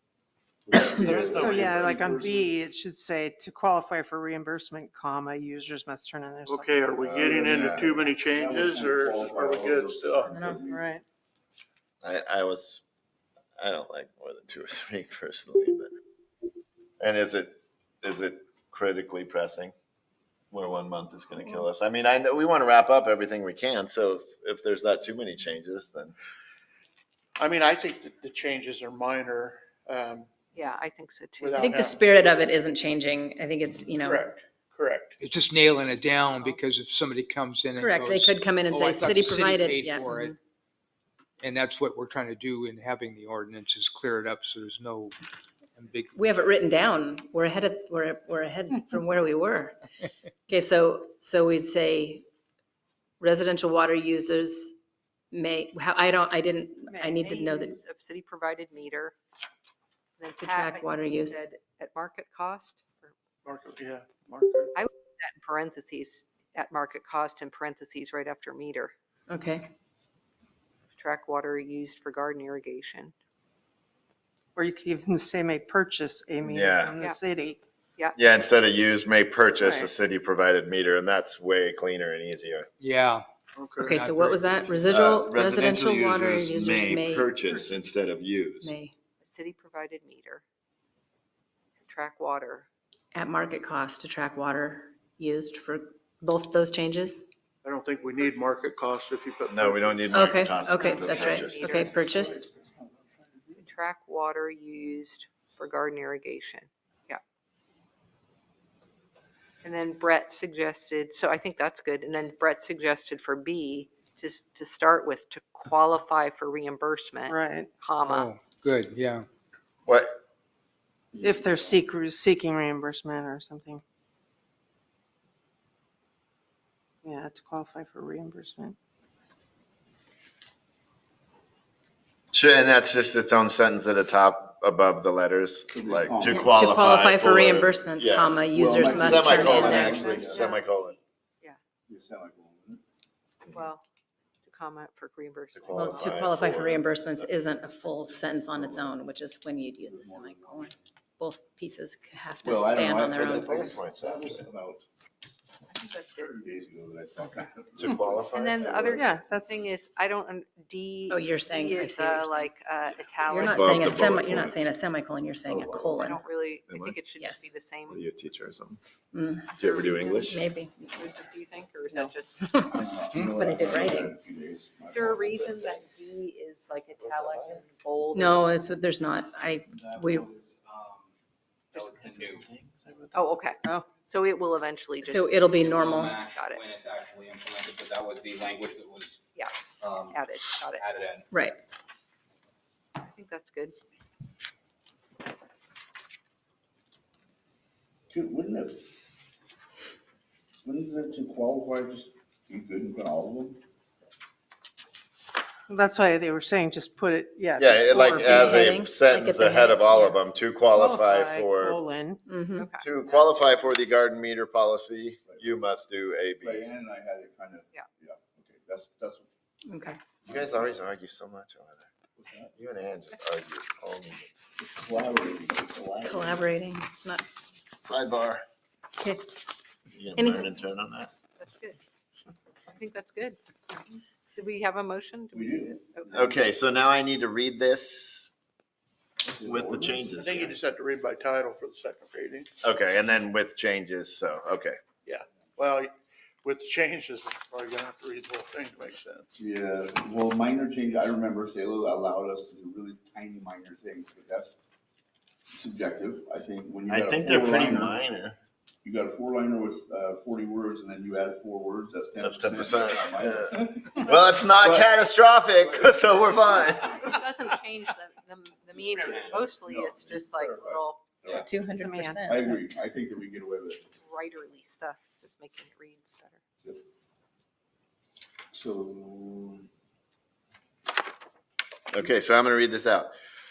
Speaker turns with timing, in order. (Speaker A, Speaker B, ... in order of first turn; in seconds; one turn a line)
Speaker A: 0.7-2.6
Speaker B: 0.8-7.2
Speaker C: 0.8-1.8
Speaker D: 6.5-10.4
Speaker C: 7.0-7.9
Speaker A: 7.3-10.9
Speaker E: 10.3-10.6
Speaker B: 10.7-11.0
Speaker C: 12.0-12.8
Speaker C: 13.6-15.9
Speaker C: 17.0-19.7
Speaker C: 20.5-26.1
Speaker D: 27.4-30.3
Speaker F: 30.5-31.6
Speaker D: 31.4-32.1
Speaker E: 31.6-34.3
Speaker D: 34.0-35.2
Speaker G: 35.2-40.4
Speaker E: 37.8-40.4
Speaker G: 41.4-45.1
Speaker G: 45.8-46.4
Speaker E: 46.1-49.8
Speaker E: 50.5-52.3
Speaker E: 53.2-54.8
Speaker E: 55.3-57.8
Speaker B: 56.9-57.2
Speaker F: 57.2-59.2
Speaker F: 60.2-63.1
Speaker E: 60.4-61.5
Speaker D: 63.5-64.7
Speaker F: 64.8-68.9
Speaker E: 69.3-69.7
Speaker F: 71.0-73.1
Speaker B: 74.6-77.6
Speaker C: 76.5-76.9
Speaker C: 78.2-82.7
Speaker B: 79.6-79.9
Speaker G: 82.8-83.2
Speaker D: 83.6-84.1
Speaker E: 83.8-87.3
Speaker G: 83.9-84.5
Speaker C: 84.9-88.8
Speaker B: 87.5-87.8
Speaker E: 88.6-88.9
Speaker F: 89.2-90.4
Speaker F: 91.8-92.7
Speaker E: 93.1-97.3
Speaker D: 97.6-100.0
Speaker C: 99.5-101.8
Speaker E: 100.1-102.5
Speaker F: 100.8-102.0
Speaker A: 102.0-103.6
Speaker F: 103.6-107.2
Speaker F: 109.6-118.3
Speaker B: 117.3-117.7
Speaker G: 118.0-119.3
Speaker C: 119.9-120.2
Speaker A: 121.1-121.6
Speaker B: 121.2-123.8
Speaker B: 127.0-128.8
Speaker C: 132.3-141.0
Speaker A: 135.7-136.5
Speaker E: 136.3-140.1
Speaker A: 138.5-139.3
Speaker B: 139.3-140.6
Speaker F: 139.4-141.6
Speaker A: 139.9-140.4
Speaker A: 141.9-142.8
Speaker F: 143.5-143.8
Speaker F: 144.4-146.3
Speaker C: 145.5-147.3
Speaker E: 145.8-153.8
Speaker A: 148.5-149.0
Speaker A: 149.8-150.7
Speaker A: 152.4-154.9
Speaker C: 152.8-154.5
Speaker F: 155.7-156.5
Speaker A: 156.2-159.2
Speaker C: 157.8-158.7
Speaker F: 158.3-164.3
Speaker B: 158.9-159.6
Speaker E: 161.1-162.5
Speaker E: 163.2-166.2
Speaker C: 163.4-164.7
Speaker C: 165.5-165.9
Speaker F: 166.0-168.0
Speaker C: 166.7-167.0
Speaker E: 167.2-167.5
Speaker C: 167.9-168.8
Speaker E: 169.1-170.9
Speaker F: 169.6-170.2
Speaker C: 169.6-170.4
Speaker F: 170.9-172.6
Speaker E: 171.9-174.2
Speaker A: 172.6-175.9
Speaker F: 174.9-178.6
Speaker C: 177.0-177.6
Speaker E: 178.1-180.3
Speaker H: 179.7-181.1
Speaker H: 181.7-182.5
Speaker F: 181.7-182.0
Speaker C: 182.1-183.4
Speaker F: 183.1-185.5
Speaker E: 185.0-186.1
Speaker H: 185.5-189.2
Speaker F: 186.2-186.6
Speaker H: 189.8-191.3
Speaker F: 190.1-190.8
Speaker F: 193.0-193.8
Speaker A: 198.1-198.8
Speaker A: 200.6-203.6
Speaker B: 205.7-208.6
Speaker C: 207.6-211.8
Speaker E: 207.9-210.2
Speaker B: 210.8-212.2
Speaker E: 212.3-212.7
Speaker F: 212.6-212.8
Speaker C: 212.8-216.7
Speaker A: 215.3-215.6
Speaker A: 216.4-219.3
Speaker E: 219.7-220.0
Speaker A: 220.3-220.8
Speaker C: 220.3-221.9
Speaker A: 222.2-222.5
Speaker C: 222.6-224.3
Speaker A: 224.6-226.5
Speaker E: 226.0-227.2
Speaker C: 227.8-228.4
Speaker E: 229.0-229.2
Speaker C: 229.9-231.1
Speaker E: 230.2-230.5
Speaker F: 231.4-231.8
Speaker F: 232.7-236.1
Speaker A: 235.3-236.4
Speaker C: 236.1-238.3
Speaker A: 239.2-240.3
Speaker C: 239.4-240.6
Speaker D: 240.2-242.5
Speaker C: 242.6-244.8
Speaker D: 245.1-245.9
Speaker D: 246.4-249.3
Speaker A: 249.3-254.6
Speaker A: 255.5-258.0
Speaker C: 256.9-258.4
Speaker A: 258.8-264.9
Speaker C: 262.2-267.2
Speaker H: 265.6-266.3
Speaker F: 266.5-271.0
Speaker A: 268.8-271.5
Speaker E: 271.3-272.6
Speaker B: 271.7-272.6
Speaker A: 272.3-273.9
Speaker F: 274.0-276.4
Speaker A: 278.5-279.7
Speaker C: 281.9-283.1